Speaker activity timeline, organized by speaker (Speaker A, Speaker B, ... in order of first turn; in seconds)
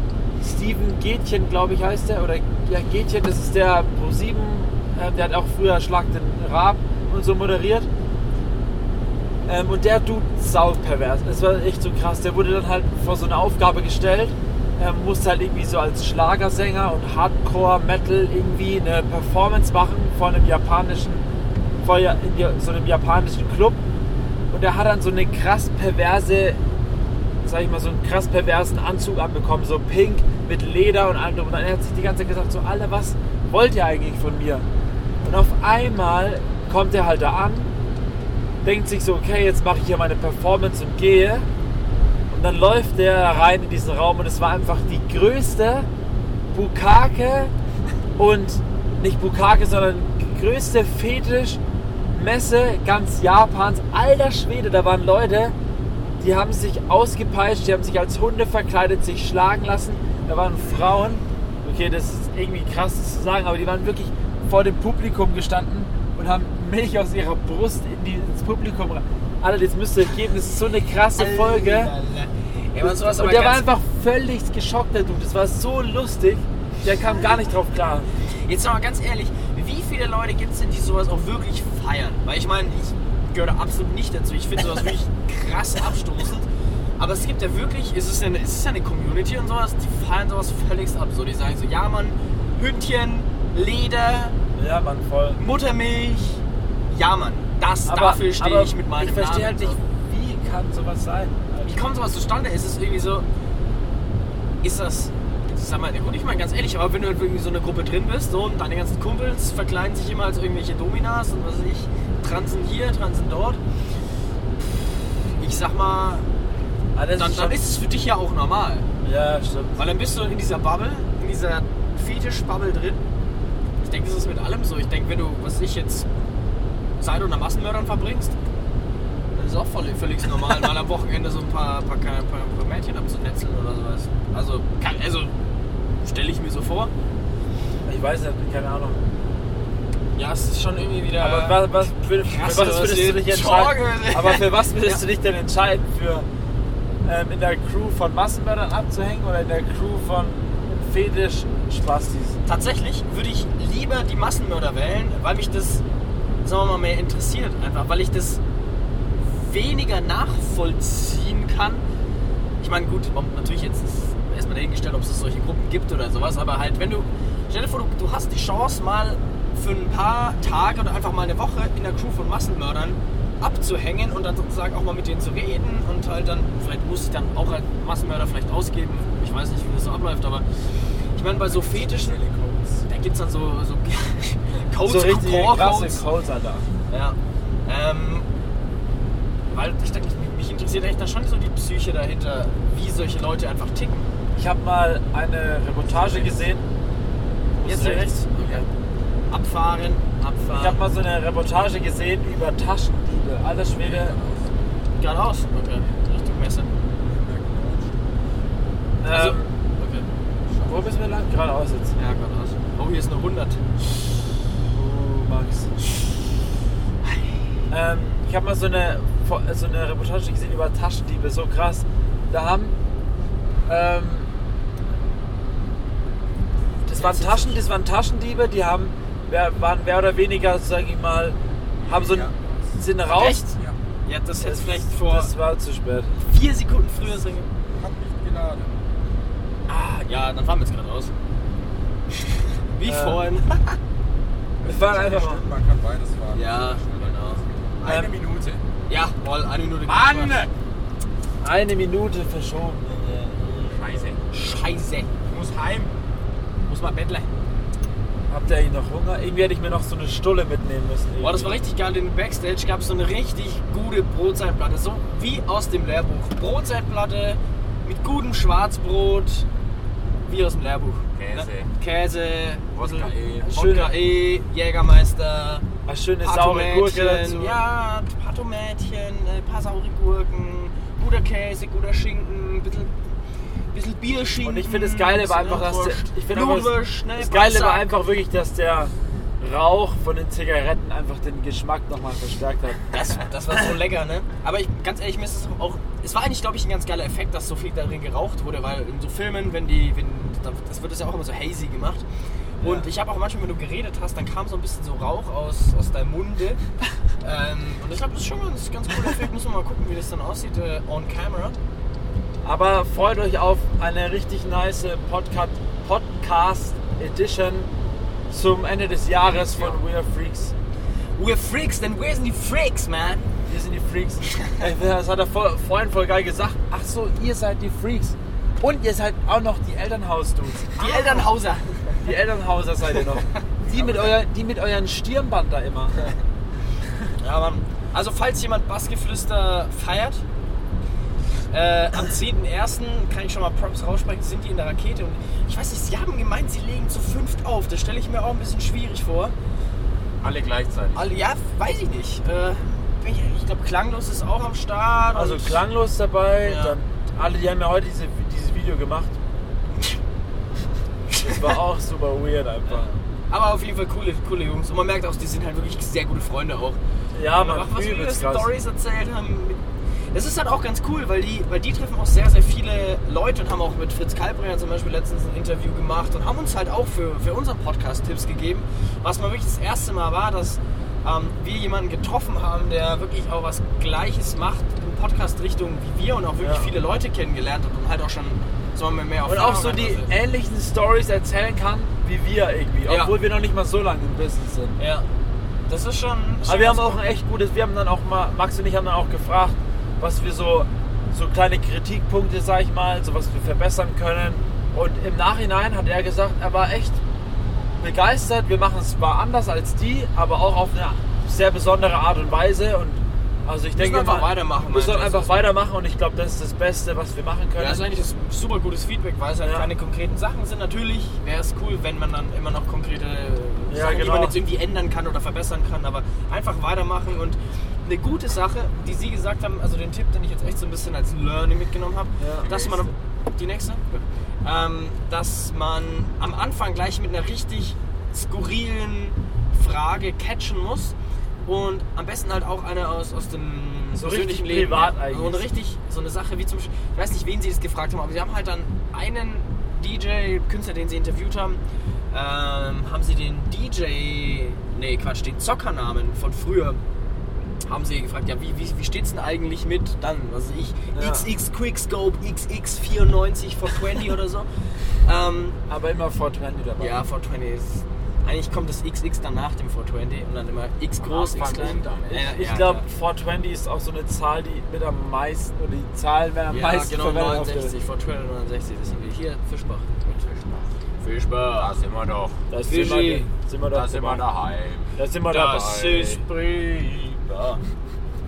Speaker A: 0.4-7.9, 9.5-21.2, 21.8-23.8, 24.5-26.6, 27.4-34.7, 35.2-37.7, 38.6-41.5, 42.3-45.9, 46.5-47.5, 48.2-51.6, 52.1-55.5, 56.2-71.9, 72.8-78.1, 94.6-95.4, 97.9-101.8, 117.0-117.6, 119.0-119.9, 137.9-139.0, 141.2-146.3, 147.0-152.4, 184.8-186.7, 194.3-196.7, 197.6-198.7, 200.6-204.2, 209.0-209.5, 210.7-211.9, 214.7-215.7, 217.7-222.8, 223.7-224.3, 226.9-233.5, 234.4-236.2, 242.8-243.3, 244.6-245.4, 251.4-253.7, 258.3-261.6, 273.5-273.9, 275.9-277.6, 284.4-292.9, 302.6-302.9, 312.4-317.7, 318.3-320.5, 323.5-331.3, 332.0-336.1, 355.1-359.1, 361.2-362.9, 367.1-368.5, 386.4-386.7, 389.3-394.8, 396.4-407.0, 407.8-417.8, 423.7-424.4, 432.2-432.5, 443.9-445.4, 460.9-461.3, 465.7-467.0, 471.1-477.7, 482.5-484.2, 485.0-485.8
Speaker B: 71.2-73.7, 78.5-86.5, 87.0-94.4, 95.4-99.8, 101.7-103.3, 104.6-113.6, 115.4-116.3, 117.2-118.9, 119.8-123.0, 123.8-126.1, 127.0-128.3, 129.3-135.3, 136.0-136.9, 140.2-145.0, 152.5-155.8, 156.4-158.4, 159.3-161.8, 162.6-180.4, 181.2-182.2, 182.9-186.0, 186.9-188.3, 189.5-194.1, 195.9-196.4, 197.6-198.7, 199.3-200.8, 205.0-206.7, 209.1-210.1, 212.0-213.6, 226.9-227.6, 231.9-232.3, 233.1-233.5, 234.1-235.3, 236.2-237.5, 239.7-241.1, 242.8-243.8, 246.3-248.1, 248.9-250.5, 254.3-255.1, 256.7-257.3, 261.2-269.5, 270.3-275.6, 276.2-282.9, 283.7-288.0, 292.9-302.0, 302.6-306.6, 307.2-311.6, 319.3-319.8, 321.2-323.3, 330.8-332.1, 333.7-334.1, 337.2-340.2, 341.5-349.3, 350.9-355.6, 356.4-356.8, 361.1-361.5, 362.7-366.8, 367.3-369.6, 370.1-390.1, 392.9-393.1, 394.8-395.1, 395.7-397.0, 413.8-415.3, 417.6-440.9, 441.4-451.6, 452.1-456.8, 457.7-465.6, 466.8-472.9, 476.5-479.9, 481.0-481.8, 482.7-483.3, 485.3-487.6
Speaker C: 181.3-182.9, 203.8-204.6, 207.0-208.2, 210.4-211.0, 232.1-232.6, 237.8-238.9, 244.6-248.6, 249.9-250.5, 253.7-254.2, 255.2-255.9, 271.2-271.7, 272.7-273.6, 350.2-351.1, 432.4-432.9, 471.0-472.4, 480.0-480.7, 481.5-482.4, 483.7-486.3